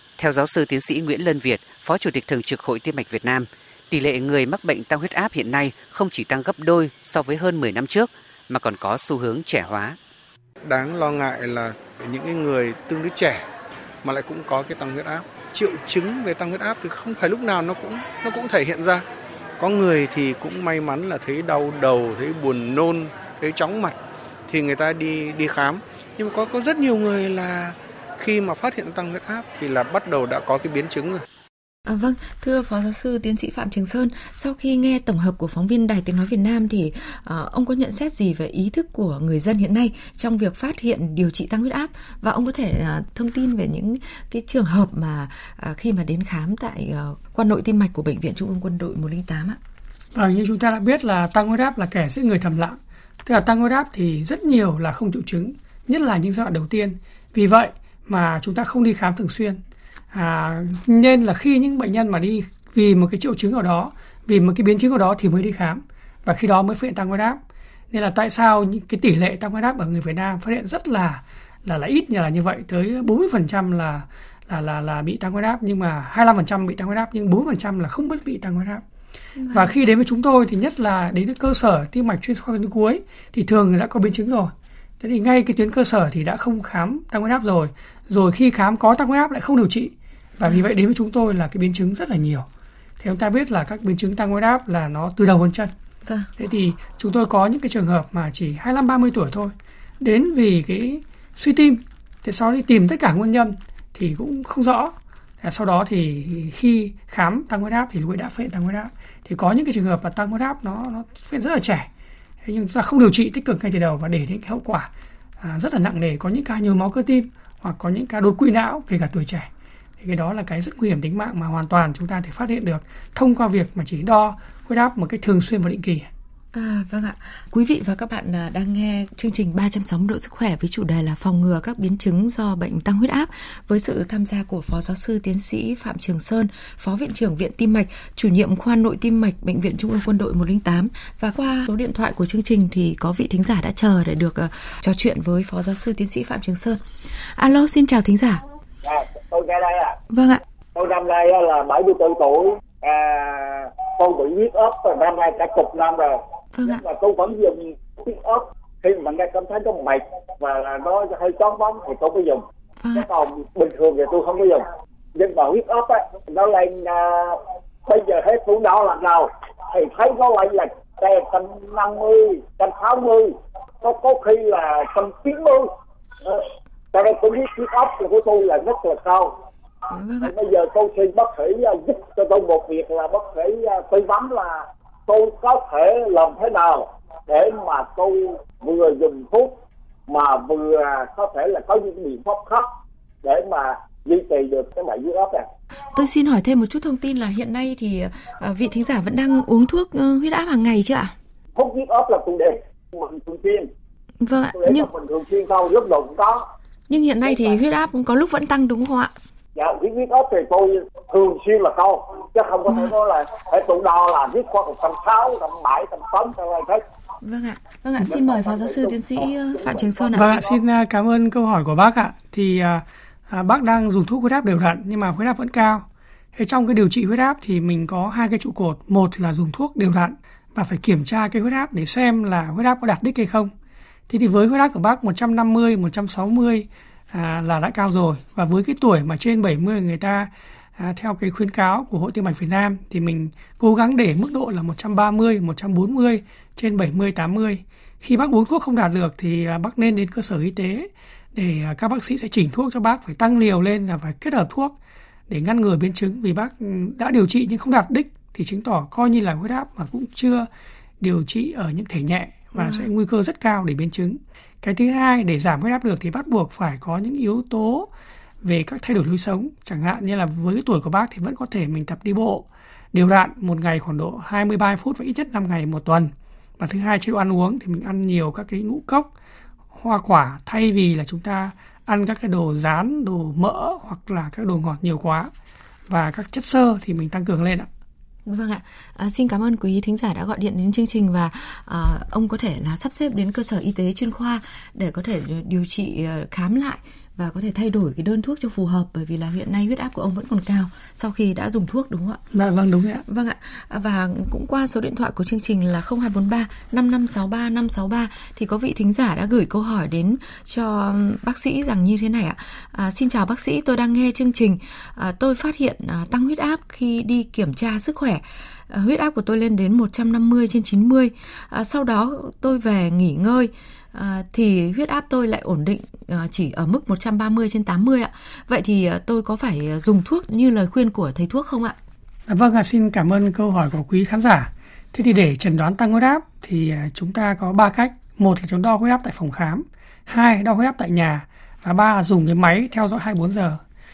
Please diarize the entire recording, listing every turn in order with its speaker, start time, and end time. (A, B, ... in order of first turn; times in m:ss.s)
0:00.2-0:10.0 A
0:10.6-0:13.4 B
0:14.0-0:19.0 B
0:19.6-0:24.0 B
0:24.5-0:31.2 B
0:31.9-0:49.6 C
0:50.1-0:59.6 D
1:00.1-1:07.4 D
1:07.9-1:18.8 D
1:19.4-1:19.7 C
1:19.5-1:32.5 D
1:33.0-1:35.7 D
1:36.0-1:36.3 C
1:36.4-1:51.9 D
1:52.4-1:59.5 D
2:00.0-2:06.1 D
2:06.5-2:28.4 C
2:28.8-2:30.0 E
2:30.1-2:30.4 C
2:30.7-2:55.7 E
2:36.5-2:36.8 C
2:56.2-2:59.4 E
2:59.9-3:00.3 C
3:00.2-3:12.7 E
3:13.2-3:15.5 E
3:15.9-3:21.1 C
3:21.6-3:23.7 E
3:24.2-3:24.9 C
3:24.5-3:26.5 E
3:26.9-3:29.1 C
3:27.2-3:27.6 E
3:29.5-3:36.8 E
3:37.2-3:40.2 C
3:38.0-3:40.6 E
3:40.1-3:53.5 D
3:54.1-4:14.7 D
4:15.3-4:20.5 D
4:21.0-4:27.9 D
4:22.5-4:22.8 C
4:28.4-4:39.1 D
4:39.7-4:45.3 D
4:45.9-4:47.7 D
4:48.2-5:02.2 C
5:02.3-5:03.0 D
5:03.1-5:31.8 C
5:32.3-5:43.6 D